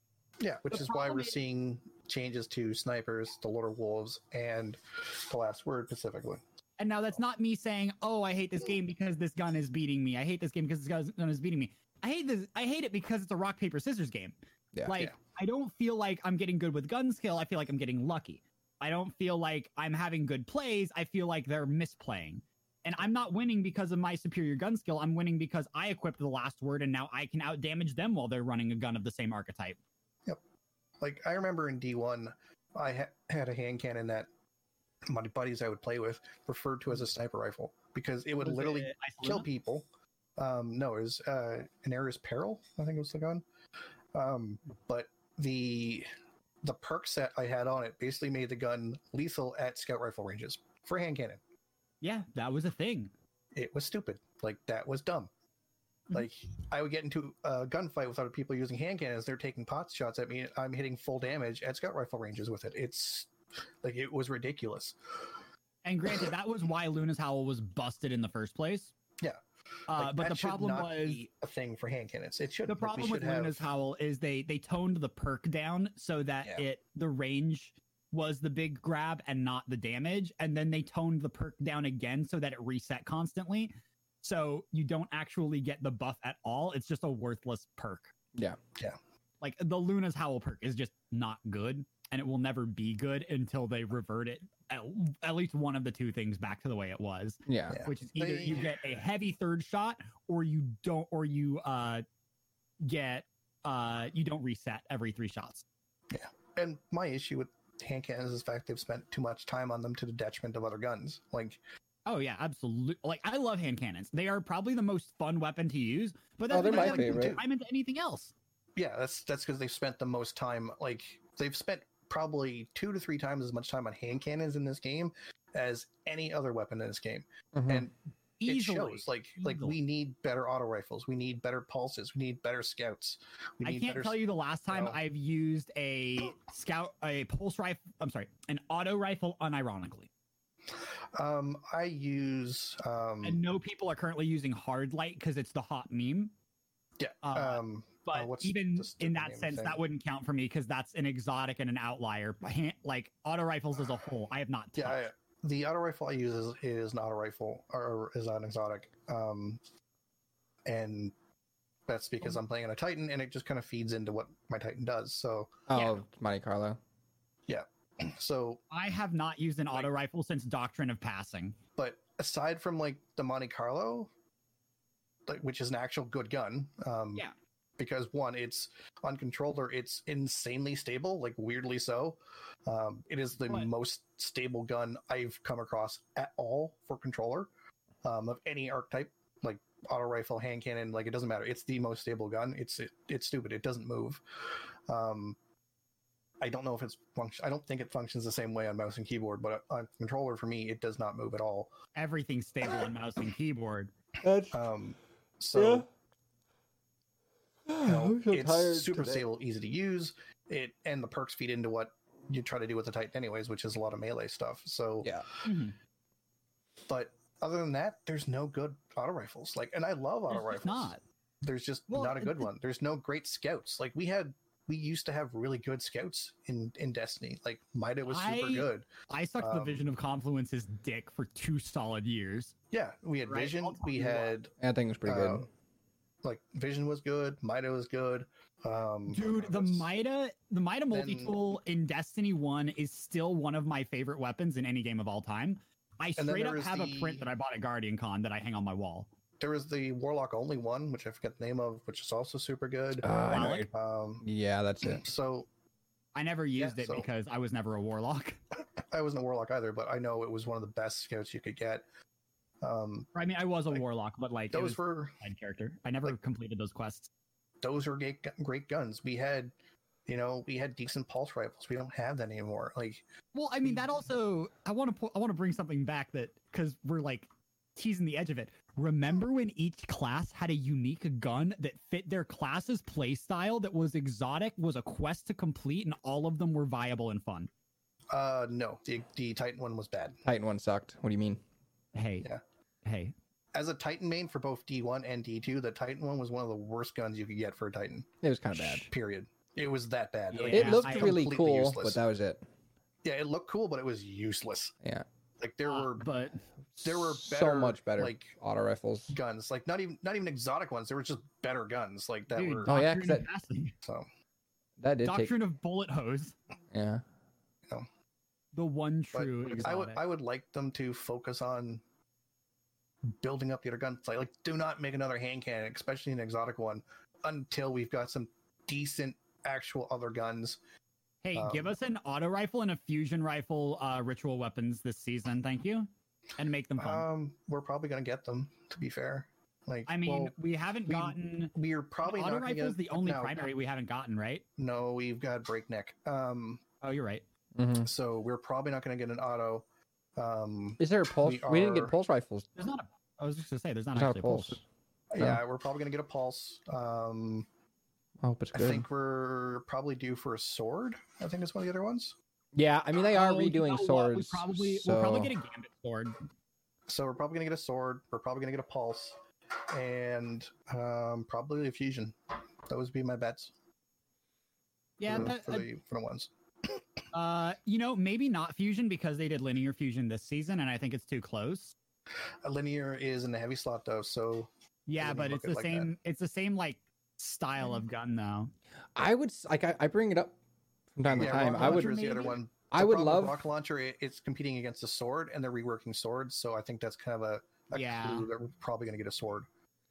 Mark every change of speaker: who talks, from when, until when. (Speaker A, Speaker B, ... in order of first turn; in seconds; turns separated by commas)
Speaker A: 0.4-6.4, Speaker B: 0.7-1.4, Speaker B: 6.8-29.8, Speaker C: 14.7-15.0, Speaker A: 31.0-34.3, Speaker A: 35.0-43.4, Speaker B: 38.4-39.5, Speaker A: 44.1-46.1, Speaker A: 46.6-51.4, Speaker B: 52.0-53.1, Speaker A: 53.5-55.3, Speaker A: 56.1-63.3, Speaker A: 63.8-65.0, Speaker B: 65.8-68.9, Speaker B: 69.9-71.2, Speaker A: 69.9-73.6, Speaker B: 72.7-83.7, Speaker B: 84.2-88.1, Speaker B: 89.4-102.0, Speaker C: 97.5-97.8, Speaker A: 97.7-98.8, Speaker B: 102.8-105.6, Speaker A: 106.1-111.6, Speaker B: 112.0-118.3, Speaker C: 116.5-117.4, Speaker A: 116.5-117.4, Speaker A: 118.8-127.9, Speaker C: 127.5-127.8, Speaker B: 128.4-129.8, Speaker A: 128.5-134.1, Speaker B: 133.6-140.1, Speaker A: 134.7-135.0, Speaker A: 140.7-143.4, Speaker B: 143.2-146.3, Speaker A: 147.0-149.8, Speaker B: 147.2-155.1, Speaker A: 154.8-159.6, Speaker A: 160.7-161.1, Speaker A: 161.9-165.6, Speaker C: 165.7-166.8, Speaker A: 167.5-168.6, Speaker B: 168.7-171.6, Speaker A: 171.8-174.1, Speaker A: 175.3-177.2, Speaker A: 177.8-187.5, Speaker A: 188.0-195.3, Speaker A: 196.4-201.7, Speaker B: 201.9-203.9, Speaker C: 204.2-204.6, Speaker A: 204.5-205.8, Speaker C: 205.5-205.8, Speaker C: 207.7-209.3, Speaker A: 207.8-215.2, Speaker B: 215.4-215.8, Speaker A: 216.9-229.8, Speaker B: 220.3-221.0, Speaker B: 221.9-222.5, Speaker B: 228.1-232.5, Speaker A: 232.7-234.5, Speaker B: 233.2-234.3, Speaker C: 234.6-235.5, Speaker A: 235.1-235.5, Speaker A: 236.2-239.9, Speaker B: 239.1-249.1, Speaker A: 240.9-241.3, Speaker A: 246.2-247.3, Speaker A: 249.4-254.2, Speaker C: 253.0-253.7, Speaker B: 253.2-253.7, Speaker C: 254.2-255.0, Speaker A: 254.8-255.5, Speaker B: 256.1-258.4, Speaker A: 256.6-257.1, Speaker A: 258.9-261.8, Speaker A: 262.6-263.1, Speaker B: 263.1-267.1, Speaker A: 264.5-265.1, Speaker A: 267.6-269.5, Speaker A: 270.1-273.0, Speaker B: 273.3-287.5, Speaker A: 288.1-290.2, Speaker C: 290.2-291.4, Speaker B: 291.9-292.3, Speaker B: 292.8-293.1, Speaker A: 293.5-302.0, Speaker C: 298.2-298.9, Speaker B: 300.3-301.3, Speaker C: 300.5-302.4, Speaker A: 303.0-304.7, Speaker A: 305.4-306.1, Speaker B: 305.6-306.4, Speaker C: 306.7-309.1, Speaker A: 306.8-308.3, Speaker A: 309.1-312.7, Speaker B: 312.3-313.8, Speaker C: 312.6-313.3, Speaker C: 314.8-315.3, Speaker B: 315.0-316.3, Speaker C: 316.7-317.0, Speaker B: 318.5-320.0, Speaker A: 319.1-321.8, Speaker A: 323.0-330.6, Speaker B: 331.2-337.0, Speaker A: 331.3-331.7, Speaker A: 336.8-340.3, Speaker B: 339.9-344.4, Speaker A: 340.9-343.4, Speaker A: 344.6-346.6, Speaker B: 346.8-347.2, Speaker C: 347.6-347.9, Speaker A: 347.8-349.6, Speaker A: 350.1-351.9, Speaker C: 350.8-352.5, Speaker B: 352.6-354.6, Speaker C: 353.9-354.6, Speaker A: 355.1-357.5, Speaker C: 358.2-358.9, Speaker A: 358.5-362.1, Speaker C: 362.5-365.3, Speaker B: 363.1-366.2, Speaker A: 366.9-373.5, Speaker B: 375.0-375.7, Speaker A: 375.0-376.8, Speaker B: 377.1-381.7, Speaker A: 382.4-385.9, Speaker B: 384.9-388.5, Speaker C: 388.9-390.4, Speaker C: 390.9-392.0, Speaker A: 391.1-399.5, Speaker B: 391.1-392.4, Speaker C: 392.7-393.4, Speaker B: 397.7-398.3